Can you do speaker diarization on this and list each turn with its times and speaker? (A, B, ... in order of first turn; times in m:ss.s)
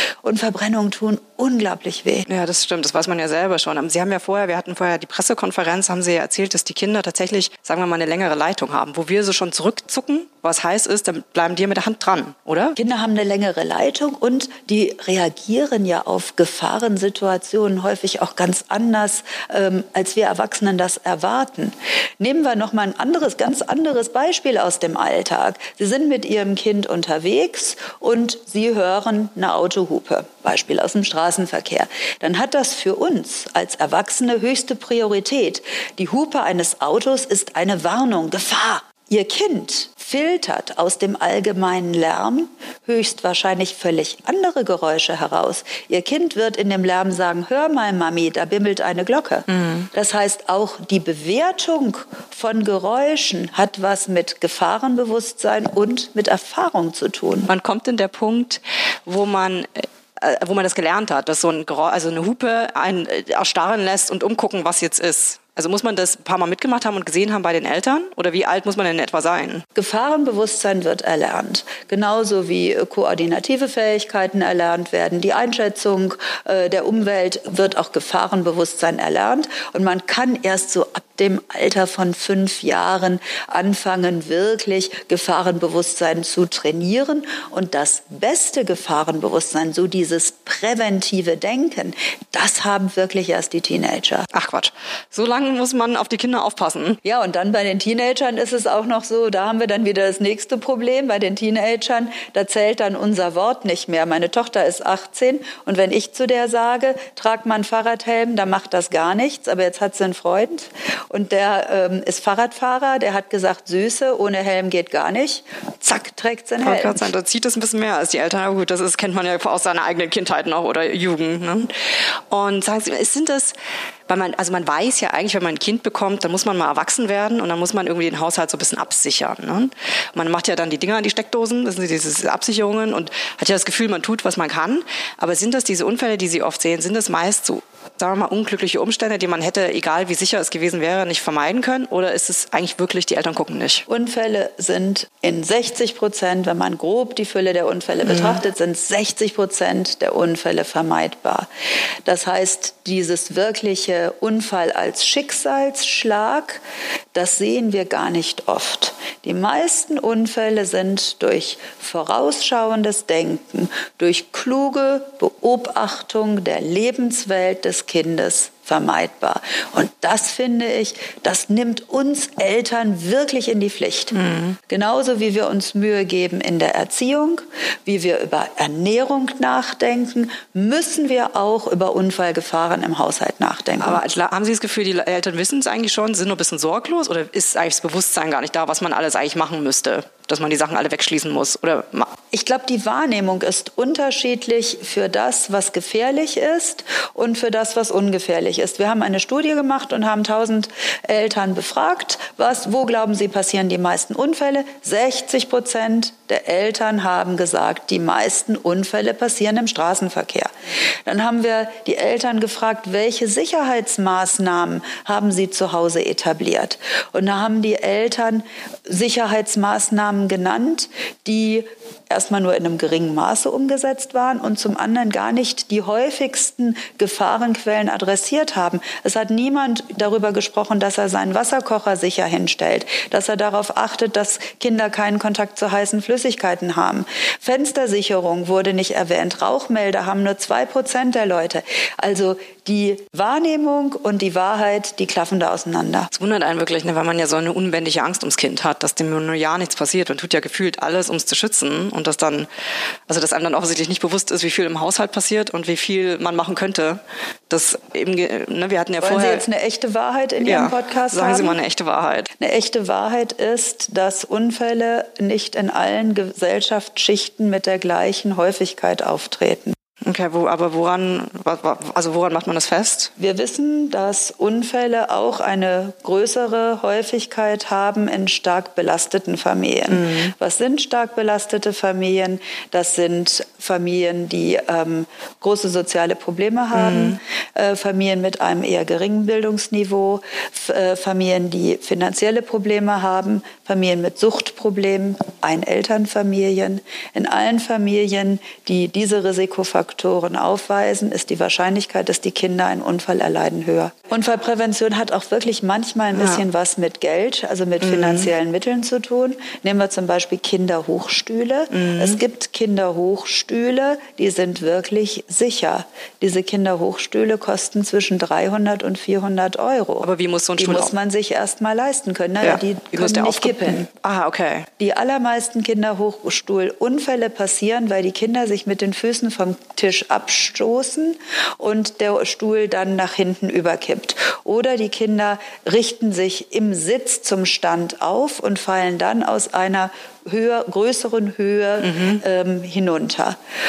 0:00.2-0:02.2 A
0:02.2-0:12.8 B
0:12.8-0:57.5 A
0:49.5-0:49.9 B
0:57.5-1:09.6 B
1:09.8-1:34.3 A
1:34.3-1:37.0 B
1:37.0-1:57.1 A
1:56.6-2:01.7 B
2:02.3-2:03.5 B
2:04.1-2:23.8 B
2:23.9-2:31.5 A
2:28.1-2:28.4 B
2:32.1-2:36.6 A
2:37.1-2:54.1 A
2:54.1-2:54.6 B
2:54.7-3:04.0 A
3:03.8-3:12.1 B
3:12.3-3:30.5 A
3:31.1-4:06.1 A
4:06.1-4:12.5 B
4:13.1-4:19.4 B
4:19.0-4:21.6 A
4:20.4-4:22.3 B
4:22.4-4:29.7 A
4:30.0-4:33.1 B
4:33.2-5:23.9 A
4:39.9-4:40.3 B
4:46.7-4:47.2 B
5:06.1-5:06.4 B
5:07.8-5:08.3 B
5:11.7-5:12.2 B
5:20.0-5:20.9 B
5:22.4-5:24.7 B
5:24.8-5:43.4 A
5:41.8-5:42.2 B